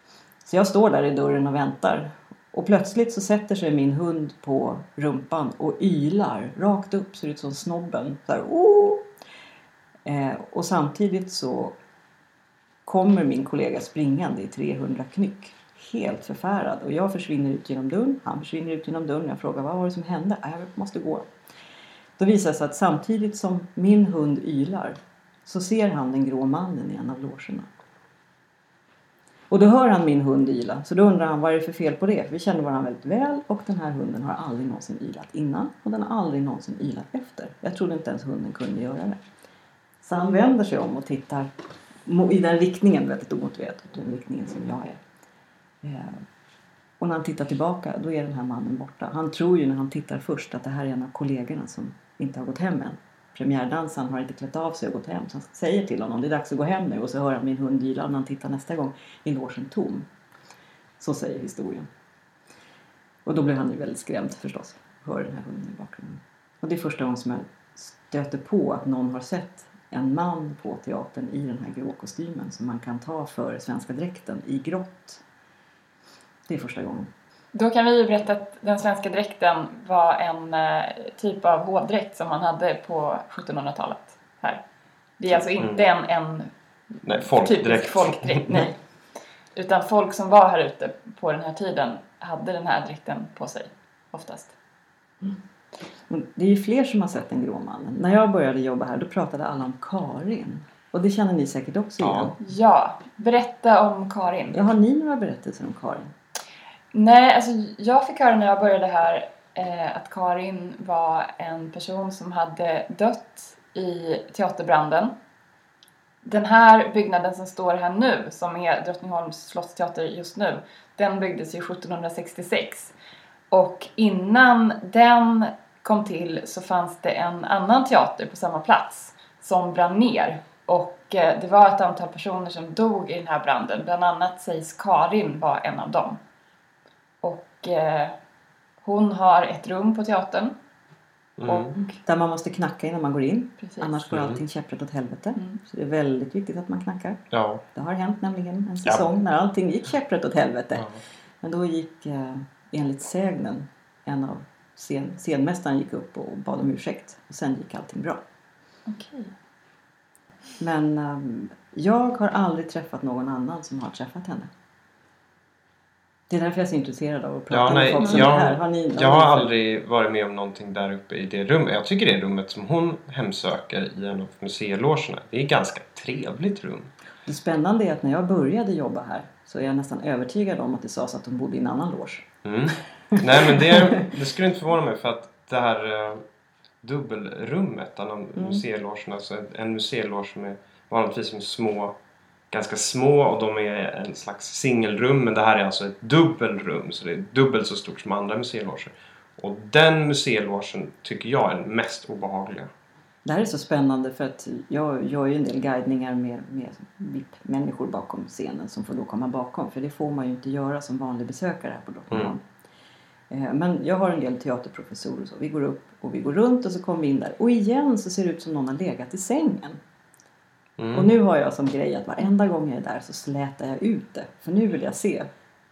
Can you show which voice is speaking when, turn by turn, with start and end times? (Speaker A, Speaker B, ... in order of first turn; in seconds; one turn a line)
Speaker A: 0.4-9.0
Speaker A: 10.0-11.8
Speaker A: 12.8-21.3
Speaker A: 22.2-27.7
Speaker A: 29.5-39.2
Speaker A: 40.0-41.5
Speaker A: 42.0-45.0
Speaker A: 45.8-46.2
Speaker A: 47.0-60.1
Speaker A: 61.0-61.9
Speaker A: 63.2-75.2
Speaker A: 76.5-77.1
Speaker B: 77.5-84.6
Speaker B: 85.2-86.5
Speaker C: 85.3-85.8
Speaker C: 87.0-88.6
Speaker B: 87.2-88.8
Speaker B: 89.5-94.5
Speaker A: 96.1-102.3
Speaker C: 102.0-102.3
Speaker B: 102.4-104.6
Speaker A: 104.5-106.1
Speaker B: 106.9-115.1
Speaker B: 116.2-122.9
Speaker B: 123.5-136.2
Speaker B: 137.2-138.2
Speaker B: 138.8-140.5
Speaker C: 141.4-141.7
Speaker B: 141.4-141.9
Speaker A: 141.9-147.2
Speaker B: 143.6-143.9
Speaker C: 144.1-144.4
Speaker C: 147.3-147.6
Speaker A: 147.7-150.9
Speaker A: 151.4-158.2
Speaker B: 158.9-159.3
Speaker A: 160.6-164.5
Speaker A: 166.3-169.5
Speaker C: 167.5-176.9
Speaker B: 168.0-168.2
Speaker A: 177.2-182.3
Speaker C: 182.4-186.2
Speaker A: 183.1-184.1
Speaker C: 186.8-191.9
Speaker A: 188.3-188.6
Speaker C: 192.5-202.7
Speaker A: 203.2-212.4
Speaker A: 213.3-219.8
Speaker C: 220.8-221.1
Speaker A: 220.9-225.3